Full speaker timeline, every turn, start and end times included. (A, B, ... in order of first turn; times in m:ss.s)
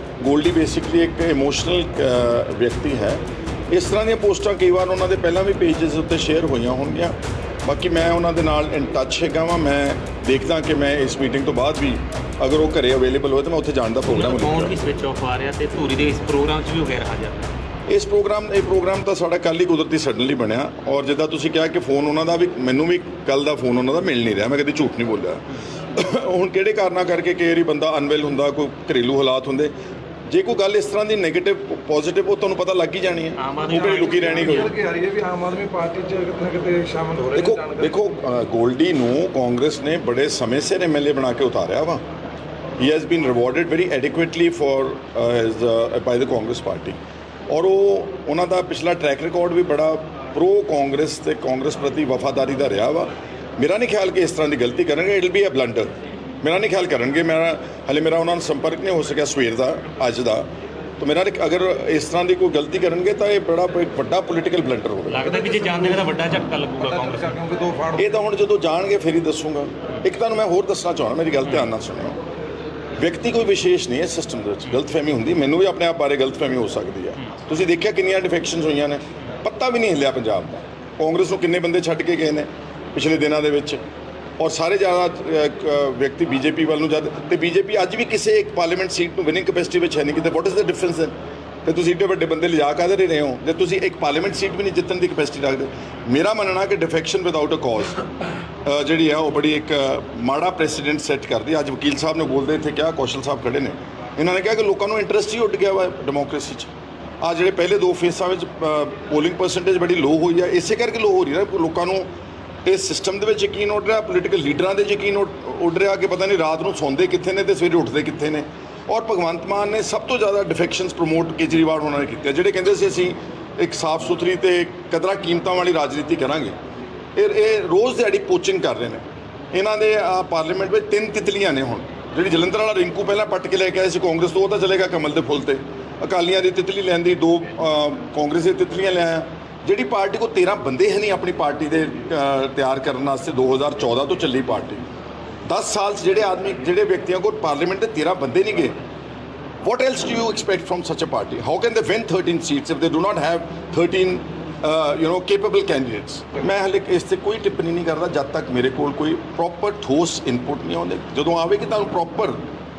0:00.2-0:14.8 A
0:14.1-0:17.5 B
0:17.9-0:25.4 A
0:25.9-0:29.7 A
0:30.3-0:34.7 A
0:33.4-0:34.7 B
0:33.7-0:37.9 C
0:37.4-0:42.0 A
0:42.8-0:47.0 A
0:47.5-1:00.5 A
1:01.0-1:05.3 A
1:05.1-1:07.4 B
1:05.2-1:06.1 C
1:06.8-1:08.1 C
1:08.0-1:12.2 A
1:13.0-1:23.8 A
1:24.4-1:31.1 A
1:31.6-1:38.0 A
1:38.6-1:46.7 A
1:47.2-1:52.1 A
1:52.6-2:06.6 A
2:07.2-2:24.8 A
2:25.5-2:28.8 A
2:29.6-2:42.4 A